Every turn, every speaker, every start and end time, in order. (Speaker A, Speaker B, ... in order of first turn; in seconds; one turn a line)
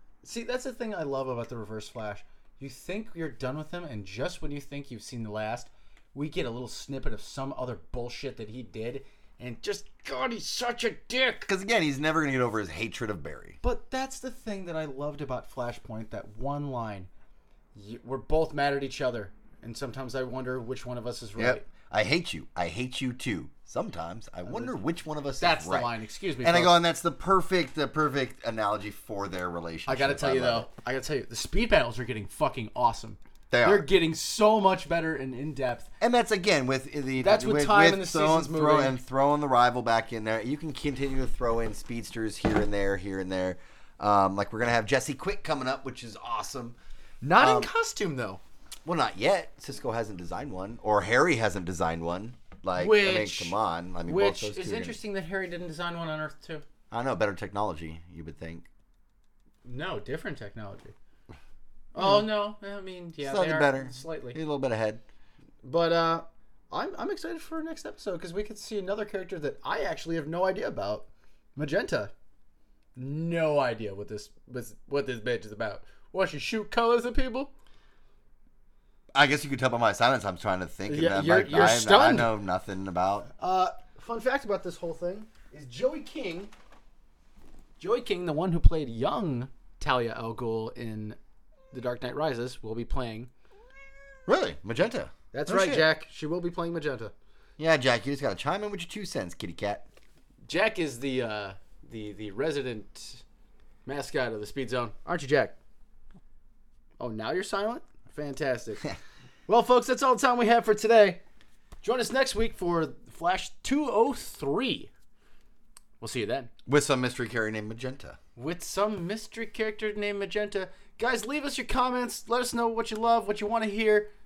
Speaker A: 0.2-11.5
Speaker B: 11.5-13.6
Speaker A: 13.6-17.1
Speaker A: 17.7-21.6
Speaker B: 21.4-30.7
Speaker A: 24.4-24.8
Speaker A: 25.4-26.8
Speaker A: 29.9-35.9
Speaker B: 33.5-33.9
Speaker B: 36.0-46.8
Speaker A: 37.2-39.0
Speaker A: 47.2-48.4
Speaker B: 47.4-47.7
Speaker B: 48.8-55.0
Speaker A: 52.8-53.5
Speaker A: 54.0-56.6
Speaker B: 56.9-58.7
Speaker A: 59.6-60.9
Speaker A: 61.9-64.4
Speaker B: 62.0-62.3
Speaker B: 63.2-65.0
Speaker A: 65.6-72.1
Speaker A: 73.0-77.5
Speaker B: 79.1-83.3
Speaker A: 80.9-82.3
Speaker A: 83.4-86.5
Speaker A: 87.8-91.2
Speaker A: 91.7-93.3
Speaker B: 94.3-95.8
Speaker A: 95.3-97.1
Speaker B: 97.6-99.8
Speaker A: 100.5-103.2
Speaker A: 103.8-105.5
Speaker A: 107.0-108.9
Speaker A: 109.5-111.2
Speaker A: 111.8-114.9
Speaker A: 116.0-116.5
Speaker B: 116.7-118.2
Speaker A: 118.3-124.1